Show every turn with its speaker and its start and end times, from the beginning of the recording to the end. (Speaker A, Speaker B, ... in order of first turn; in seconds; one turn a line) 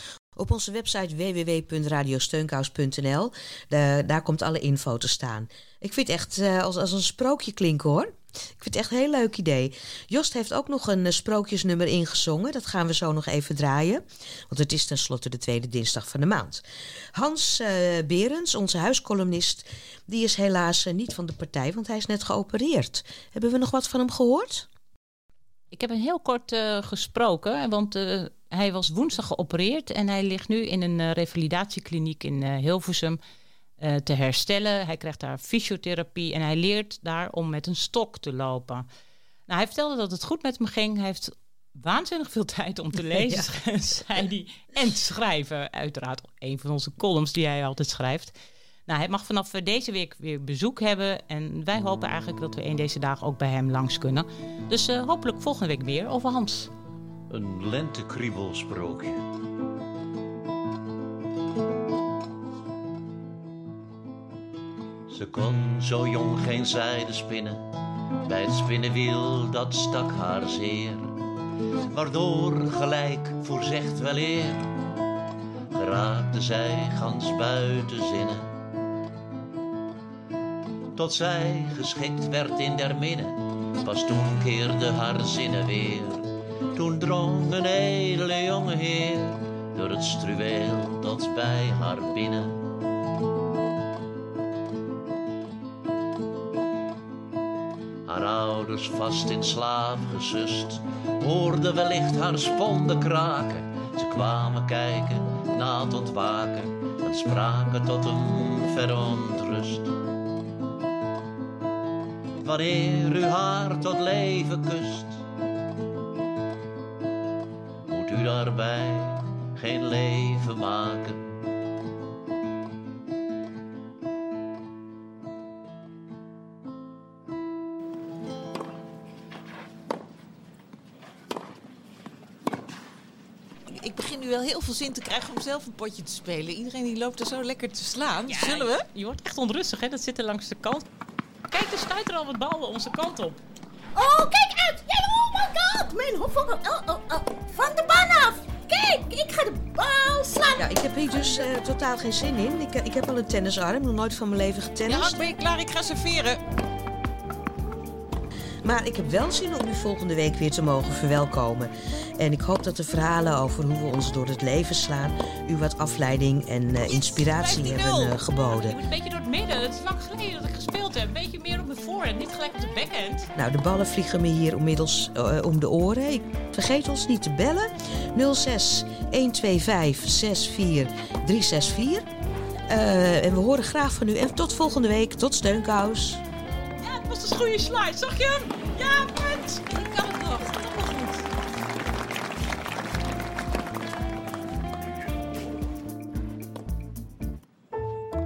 Speaker A: 0.3-16.6
Speaker A: 17.1-24.7
Speaker B: 25.7-33.2
Speaker B: 33.8-38.9
Speaker B: 39.5-48.3
Speaker A: 43.2-43.5
Speaker B: 48.9-56.7
Speaker C: 57.3-59.1
Speaker C: 65.1-67.7
Speaker C: 68.2-71.1
Speaker C: 71.9-74.7
Speaker C: 75.7-78.5
Speaker C: 80.9-92.6
Speaker C: 98.0-109.9
Speaker C: 112.4-115.2
Speaker C: 117.9-121.4
Speaker D: 133.8-138.8
Speaker B: 138.3-140.8
Speaker B: 141.5-143.4
Speaker E: 143.9-151.4
Speaker A: 150.6-155.2
Speaker D: 154.9-156.4
Speaker A: 158.6-168.8
Speaker B: 166.8-173.3
Speaker A: 173.3-182.1
Speaker A: 182.7-186.2
Speaker B: 186.8-190.2
Speaker D: 189.6-191.2